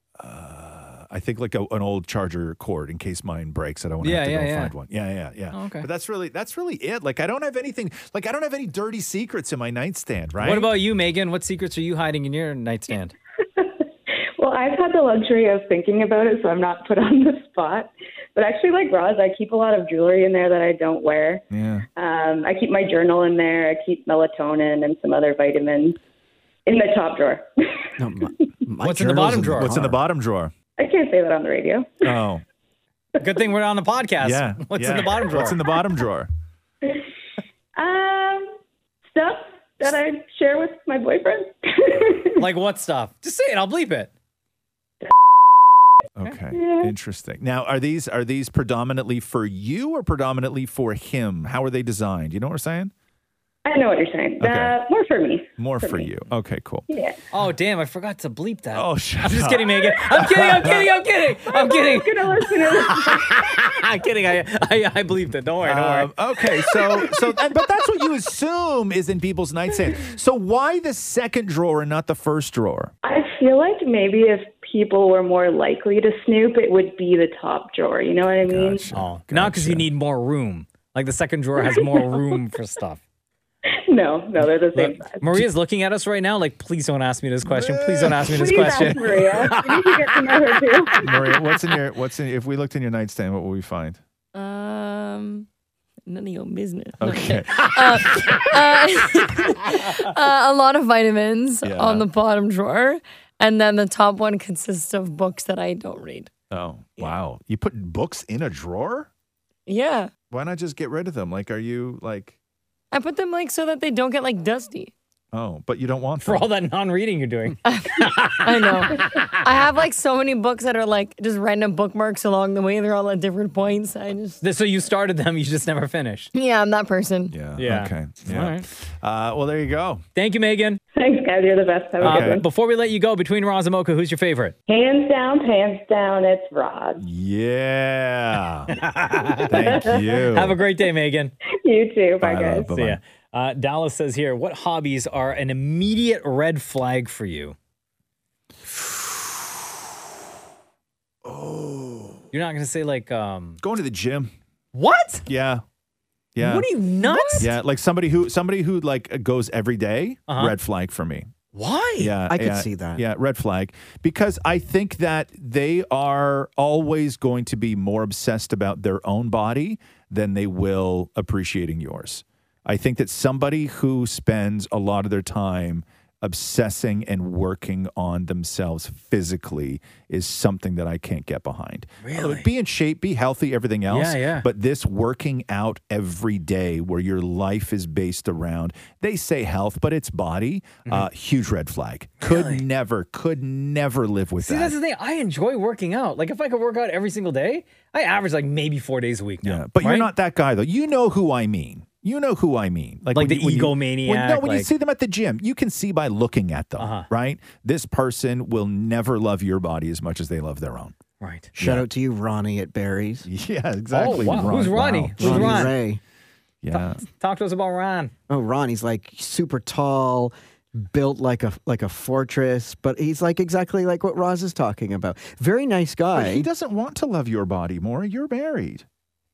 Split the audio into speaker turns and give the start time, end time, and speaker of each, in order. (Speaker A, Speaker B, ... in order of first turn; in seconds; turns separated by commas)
Speaker A: 0.2-10.7, Speaker B: 4.0-4.7, Speaker B: 5.5-5.9, Speaker B: 10.4-13.1, Speaker C: 13.6-13.8, Speaker C: 14.4-21.4, Speaker A: 21.5-21.9, Speaker C: 22.0-26.0, Speaker C: 26.7-27.5, Speaker D: 28.0-30.0, Speaker B: 28.8-29.8, Speaker A: 29.6-30.5, Speaker C: 30.8-32.0, Speaker A: 32.0-32.4, Speaker B: 33.2-35.6, Speaker A: 34.2-36.3, Speaker C: 37.8-38.5, Speaker C: 39.1-42.4, Speaker B: 42.4-44.1, Speaker A: 46.2-52.9, Speaker C: 46.5-46.9, Speaker C: 53.7-56.1, Speaker A: 54.4-54.8, Speaker A: 55.6-56.9, Speaker C: 56.9-57.2, Speaker B: 57.3-66.1, Speaker A: 58.7-60.9, Speaker C: 61.5-63.5, Speaker A: 65.6-72.9, Speaker B: 66.7-67.1, Speaker C: 73.0-78.8, Speaker A: 78.3-79.9, Speaker B: 78.9-83.0, Speaker C: 81.6-82.2, Speaker C: 83.9-85.2, Speaker B: 84.7-90.3, Speaker A: 87.5-89.4, Speaker C: 88.2-91.1, Speaker A: 91.0-94.0, Speaker E: 94.3-95.5, Speaker E: 96.1-106.3, Speaker A: 97.0-98.9, Speaker A: 101.6-102.1, Speaker A: 106.5-109.1, Speaker E: 109.7-110.1, Speaker A: 110.3-112.4, Speaker E: 112.9-114.9, Speaker A: 115.3-116.5, Speaker B: 116.2-119.3, Speaker E: 117.7-124.4, Speaker B: 124.4-126.3, Speaker E: 126.3-127.3, Speaker A: 127.3-130.0, Speaker B: 127.6-128.7, Speaker B: 130.2-130.8, Speaker C: 130.9-132.4, Speaker A: 132.0-132.4, Speaker B: 132.0-134.6, Speaker C: 134.7-137.0, Speaker A: 137.0-138.7, Speaker B: 138.7-141.3, Speaker C: 139.5-140.0, Speaker A: 139.5-140.6, Speaker C: 141.6-142.7, Speaker A: 142.2-143.0, Speaker B: 142.7-147.6, Speaker A: 151.2-152.2, Speaker B: 152.3-153.6, Speaker A: 153.6-154.3, Speaker B: 154.7-155.2, Speaker A: 155.3-155.6, Speaker A: 156.3-156.7, Speaker B: 156.4-157.5, Speaker E: 157.0-157.5, Speaker A: 157.4-161.3, Speaker B: 160.3-160.6, Speaker B: 161.5-162.1, Speaker A: 162.0-194.8, Speaker D: 162.3-163.0, Speaker B: 182.0-182.5, Speaker B: 183.9-184.5, Speaker B: 192.2-192.7, Speaker B: 194.4-200.1, Speaker A: 199.4-210.9, Speaker B: 203.1-204.7, Speaker B: 206.8-207.1, Speaker B: 211.2-211.5, Speaker D: 211.6-213.3, Speaker A: 211.6-211.9, Speaker A: 213.3-215.8, Speaker B: 213.9-215.7, Speaker D: 215.2-216.0, Speaker A: 216.6-217.0, Speaker B: 216.7-218.1, Speaker D: 218.3-226.5, Speaker A: 226.2-228.8